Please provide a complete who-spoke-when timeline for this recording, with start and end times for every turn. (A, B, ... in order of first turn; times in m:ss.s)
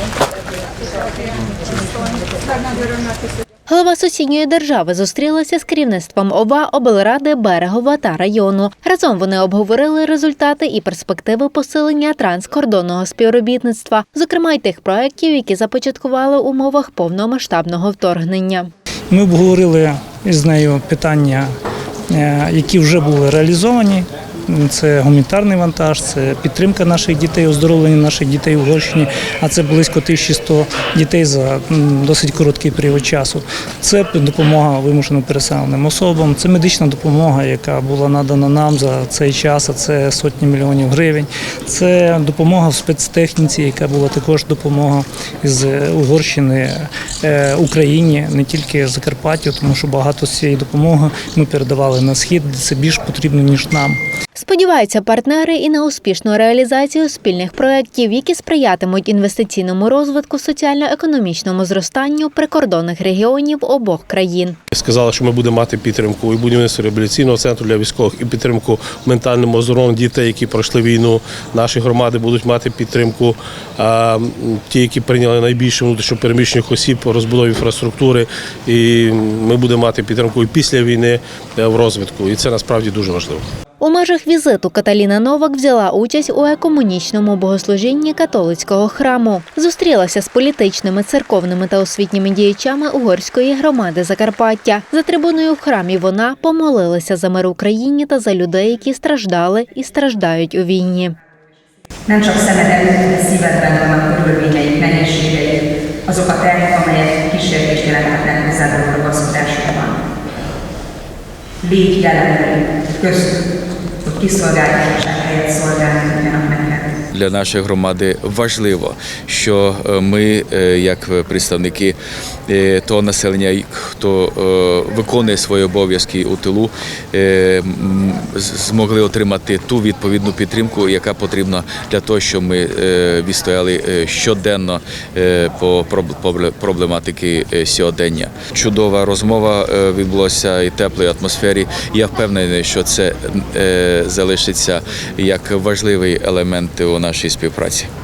0:03.7-0:18.7 A
0:19.1-0:21.5 B
0:22.1-0:54.0 B
0:54.3-1:04.6 A
1:04.7-1:23.4 C
1:23.8-1:41.1 A
1:42.1-1:50.0 D
1:51.6-1:53.4 D
1:54.0-1:56.9 D
1:57.1-2:02.0 E
2:02.5-2:27.9 E